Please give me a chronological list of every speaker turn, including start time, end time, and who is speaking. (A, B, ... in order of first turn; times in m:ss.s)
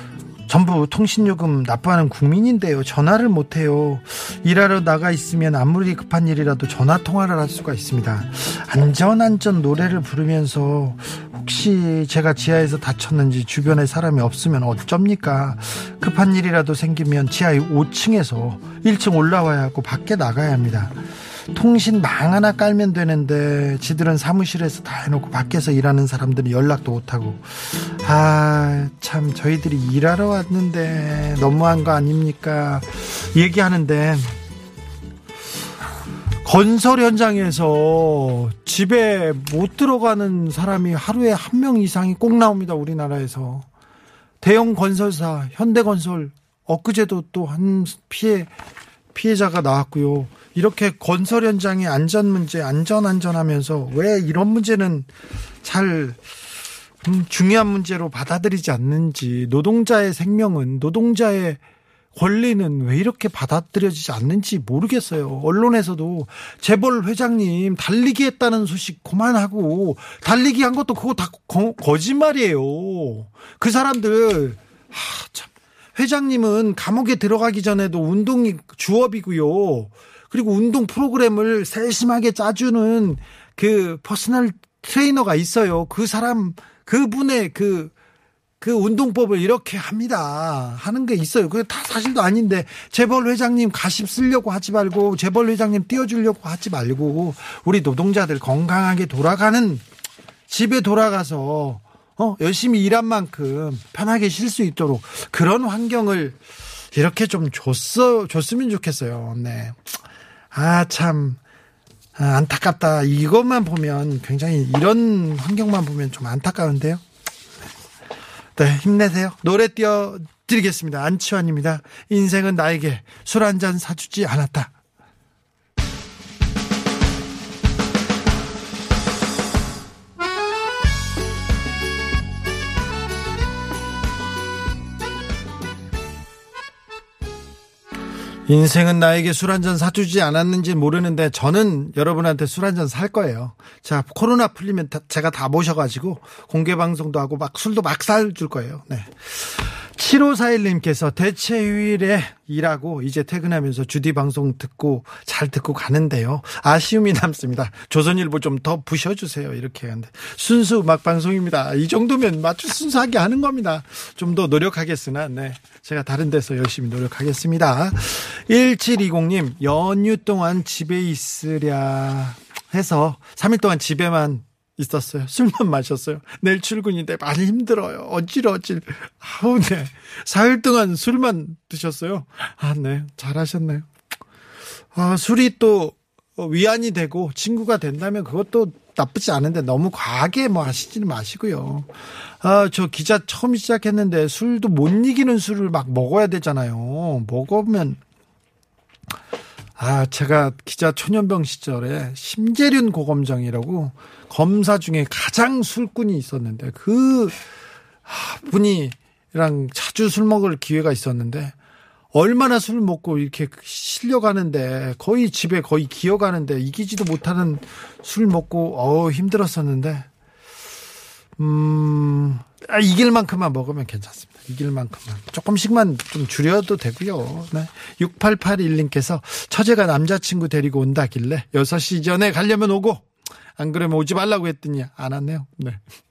0:00.5-0:21.0 A
0:21.5-0:34.4 A
0:36.4-0:43.7 A
0:44.4-0:48.5 A
0:49.1-0:55.1 A
0:55.6-0:56.2 A
0:57.0-1:01.6 A
1:02.2-1:27.9 A
1:28.6-1:39.8 A
1:40.5-1:46.4 A
1:46.9-1:49.9 A
1:50.5-1:51.4 A
1:52.2-1:57.0 A
1:58.6-2:04.7 A
2:18.5-3:03.9 A
3:04.9-3:11.9 A
3:12.4-3:18.0 A
3:19.8-3:27.4 A
3:28.1-3:31.5 A
3:32.1-3:40.1 A
3:41.4-3:53.1 A
3:53.6-3:55.8 A